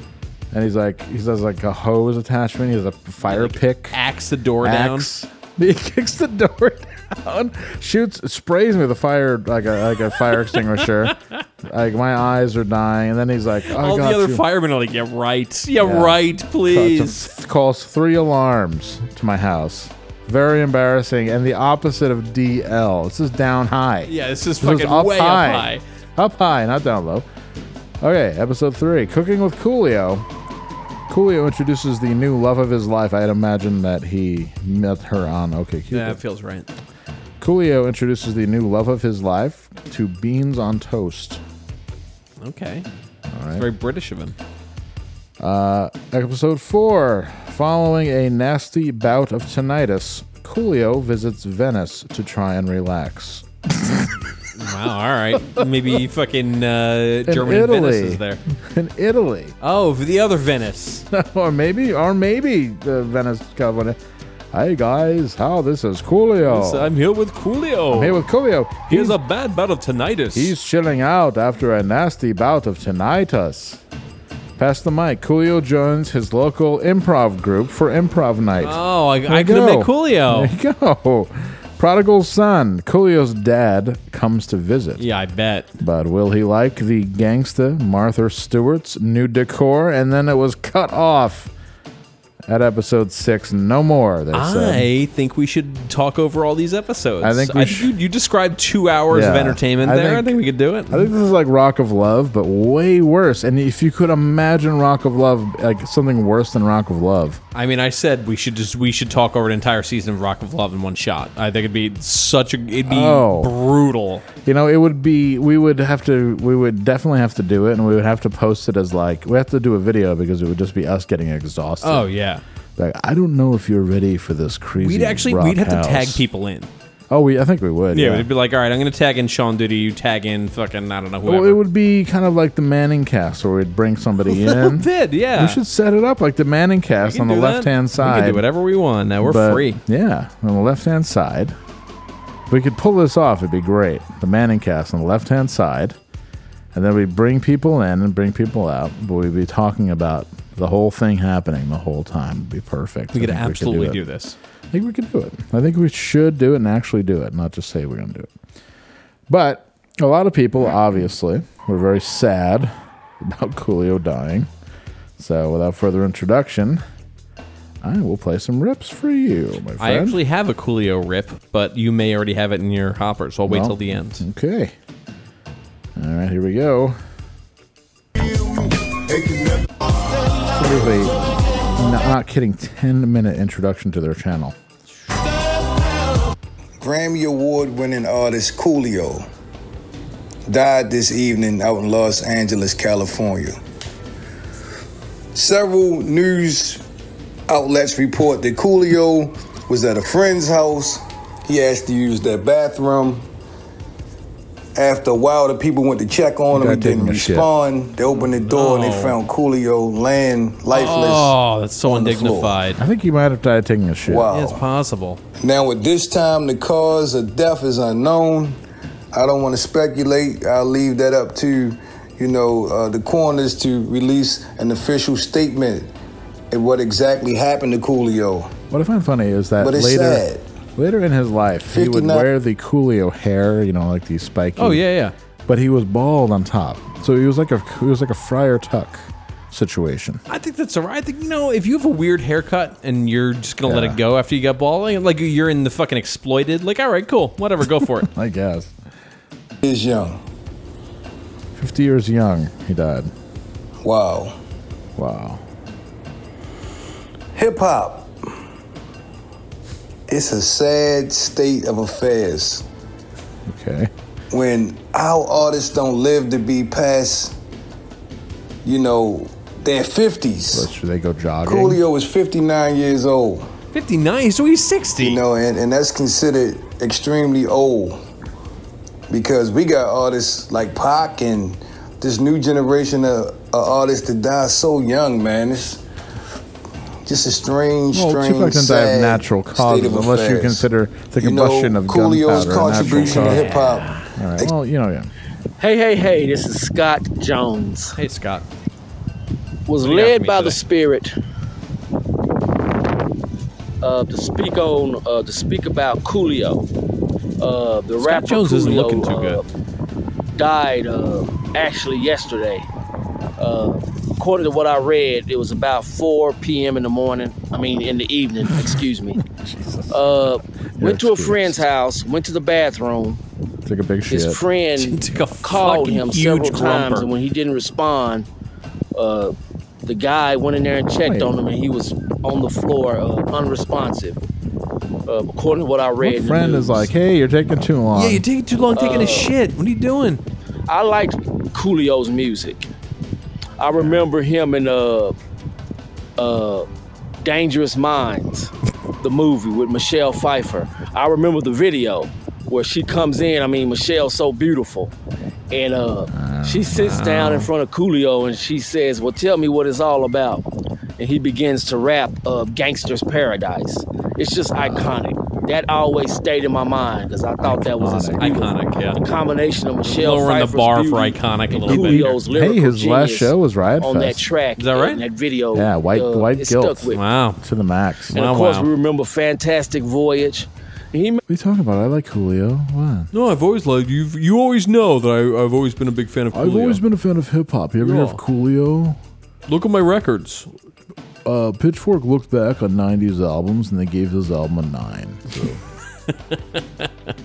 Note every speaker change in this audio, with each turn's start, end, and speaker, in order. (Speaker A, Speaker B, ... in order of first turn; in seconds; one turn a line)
Speaker A: 0.5-4.0
Speaker B: 3.2-5.1
Speaker A: 4.6-14.4
Speaker B: 13.8-17.3
Speaker A: 15.8-27.3
Speaker B: 24.1-25.8
Speaker A: 28.0-30.3
Speaker A: 31.1-36.2
Speaker B: 35.9-36.7
Speaker A: 37.4-41.4
Speaker B: 42.4-42.9
Speaker A: 43.3-43.7
Speaker B: 43.5-44.4
Speaker A: 45.4-54.1
Speaker B: 54.5-58.4
Speaker A: 55.5-56.0
Speaker A: 57.3-59.5
Speaker B: 59.6-61.0
Speaker A: 61.1-64.0
Speaker A: 64.5-66.9
Speaker B: 66.5-68.2
Speaker A: 67.9-69.2
Speaker B: 68.9-70.5
Speaker A: 70.3-73.8
Speaker A: 74.6-85.0
Speaker B: 78.6-80.5
Speaker B: 85.0-85.7
Speaker A: 85.8-91.5
Speaker A: 92.5-94.9
Speaker B: 94.3-101.1
Speaker A: 97.2-97.9
Speaker A: 99.1-107.4
Speaker B: 107.5-114.2
Speaker A: 112.9-113.5
Speaker A: 114.5-122.1
Speaker B: 121.8-122.4
Speaker A: 122.8-126.2
Speaker B: 124.8-126.7
Speaker A: 127.1-128.3
Speaker B: 127.9-131.6
Speaker A: 131.2-138.4
Speaker B: 134.3-135.6
Speaker B: 137.1-139.8
Speaker A: 139.2-141.6
Speaker A: 142.5-146.0
Speaker A: 146.7-154.0
Speaker B: 153.1-154.4
Speaker A: 154.7-158.3
Speaker A: 159.3-164.5
Speaker A: 165.2-166.8
Speaker A: 167.8-170.2
Speaker B: 169.8-174.2
Speaker A: 173.5-174.7
Speaker A: 176.0-177.0
Speaker C: 179.1-179.6
Speaker A: 180.5-181.2
Speaker A: 181.8-184.6
Speaker C: 186.8-189.3
Speaker C: 190.5-193.6
Speaker C: 195.3-196.8
Speaker C: 197.5-203.3
Speaker C: 204.8-212.6
Speaker A: 206.5-207.5
Speaker B: 208.1-209.2
Speaker B: 210.7-212.8
Speaker A: 212.8-214.3
Speaker C: 214.1-214.6
Speaker B: 214.3-215.2
Speaker C: 215.4-218.6
Speaker C: 219.1-225.9
Speaker C: 226.5-228.5
Speaker A: 228.7-234.8
Speaker C: 229.6-230.4
Speaker C: 231.7-232.3
Speaker B: 234.6-235.1
Speaker A: 235.5-240.2
Speaker B: 240.3-248.1
Speaker A: 243.7-244.0
Speaker A: 247.8-248.7
Speaker C: 249.6-250.2
Speaker A: 251.6-253.1
Speaker C: 253.8-254.4
Speaker A: 255.0-255.4
Speaker C: 257.4-258.1
Speaker C: 260.1-262.6
Speaker A: 263.5-263.9
Speaker C: 264.3-267.3
Speaker C: 268.6-270.7
Speaker A: 270.5-271.8
Speaker C: 271.5-273.5
Speaker B: 273.7-275.2
Speaker C: 275.0-278.0
Speaker C: 279.1-285.8
Speaker C: 287.1-294.5
Speaker A: 287.9-295.1
Speaker B: 292.6-294.1
Speaker D: 295.6-298.0
Speaker B: 298.0-298.5
Speaker D: 299.7-301.1
Speaker B: 299.8-300.6
Speaker D: 303.8-306.6
Speaker D: 307.4-309.4
Speaker B: 308.0-309.4
Speaker D: 310.4-312.7
Speaker D: 313.4-319.2
Speaker A: 318.6-320.2
Speaker D: 319.9-323.2
Speaker A: 320.8-321.6
Speaker A: 323.6-324.4
Speaker D: 324.1-328.3
Speaker B: 324.8-327.1
Speaker D: 329.0-329.3
Speaker D: 329.9-334.2
Speaker A: 331.1-331.3
Speaker D: 335.1-336.9
Speaker A: 336.0-338.2
Speaker B: 337.9-340.2
Speaker D: 338.7-339.3
Speaker D: 340.7-342.7
Speaker D: 343.6-345.1
Speaker D: 346.2-346.7
Speaker D: 347.2-354.9
Speaker D: 355.5-360.4
Speaker A: 356.1-356.7
Speaker B: 356.7-357.5
Speaker D: 361.0-377.0
Speaker A: 364.6-364.9
Speaker A: 367.4-368.4
Speaker B: 368.2-369.0
Speaker B: 369.8-372.2
Speaker A: 371.7-374.2
Speaker B: 374.6-375.0
Speaker A: 375.5-376.9
Speaker B: 376.9-377.4
Speaker A: 377.4-378.2
Speaker B: 378.1-378.7
Speaker D: 378.1-381.2
Speaker A: 381.3-383.1
Speaker B: 383.1-386.8
Speaker A: 386.3-389.0
Speaker B: 387.8-388.2
Speaker B: 389.5-390.5
Speaker A: 391.2-395.6
Speaker B: 396.3-396.9